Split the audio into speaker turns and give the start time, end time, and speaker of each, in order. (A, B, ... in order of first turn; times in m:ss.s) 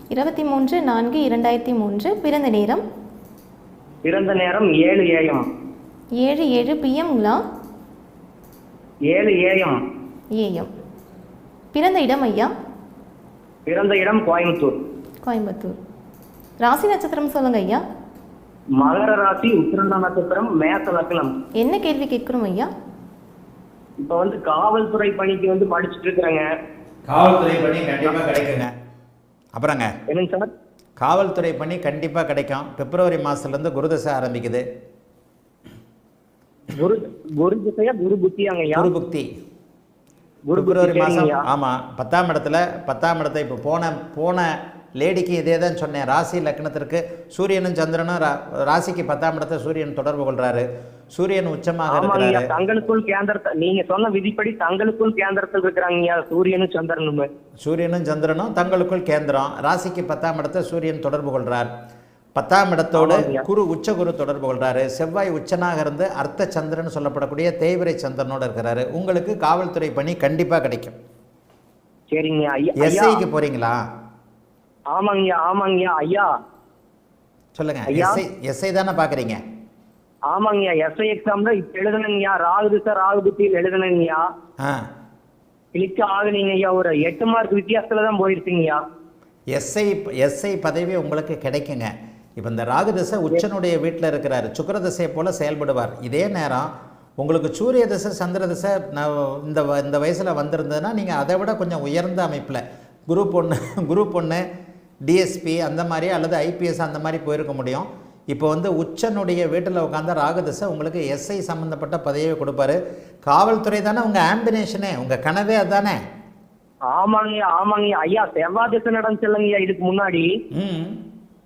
0:00.1-0:02.8 A
0:04.0-0:05.4 B
0:06.2-0:07.4 A
0:09.1-0:09.8 B
0:10.4-0:10.7 A
0:11.7-0:12.5 A
0:13.7-0:14.8 B
0:15.2-0:15.8 A
0:16.6-0:17.8 A
0:18.8-0:21.4 B
0:21.6-0:22.7 A
0:24.0-0:26.5 B
0:27.1-0:28.7 C
0:29.6-0:29.9 C
0:30.1-0:30.5 B
0:31.0-0:34.6 C
0:36.7-0:38.9 B
0:38.7-0:39.3 C
0:40.5-0:41.4 B
0:40.6-0:52.5 C
0:51.9-0:57.3 B
0:57.6-1:01.7 C
1:02.4-1:11.0 C
1:03.0-1:03.5 B
1:12.1-1:13.2 B
1:12.8-1:13.8 C
1:14.9-1:16.3 B
1:17.6-1:19.4 C
1:17.9-1:18.2 B
1:20.3-1:24.2 B
1:25.7-1:28.8 B
1:29.5-1:36.7 C
1:37.2-1:44.4 C
1:45.1-1:56.0 C
1:56.9-2:00.3 B
2:00.5-2:01.0 C